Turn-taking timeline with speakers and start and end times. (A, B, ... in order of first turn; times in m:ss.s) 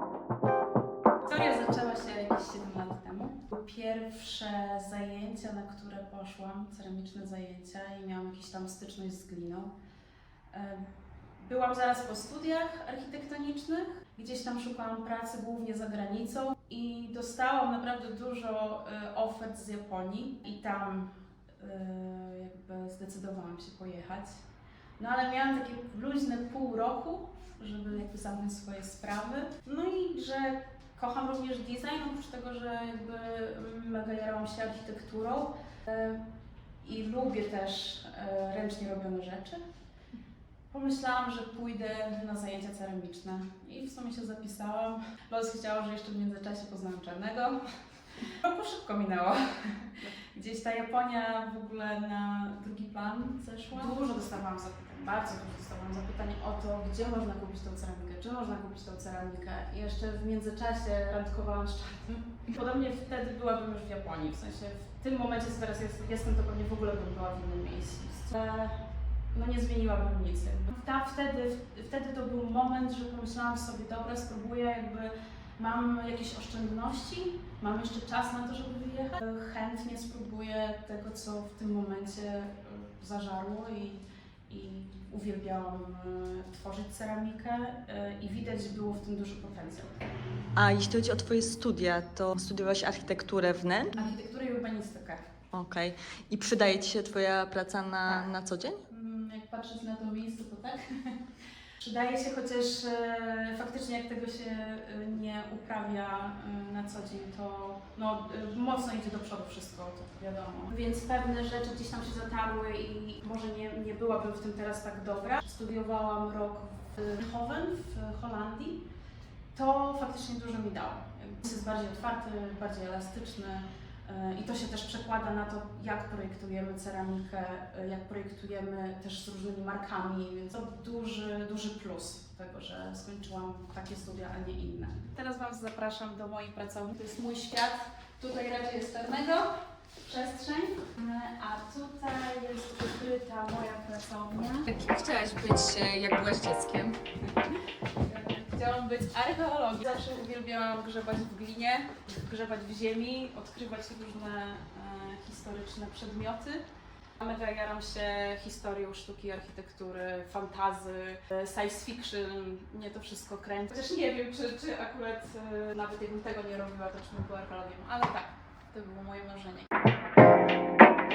0:01.2-0:09.7 A
0:10.5-0:24.4 A
0:25.0-0:36.3 A
0:36.8-0:39.6 A
0:40.7-0:47.6 A
0:48.2-1:30.0 A
1:30.5-1:33.9 B
1:33.9-1:35.3 A
1:35.5-1:38.8 B
1:38.9-1:41.2 A
1:41.8-1:58.8 A
1:59.5-2:24.7 A
2:24.7-2:27.0 C
2:28.0-2:36.6 A
2:37.2-2:49.7 A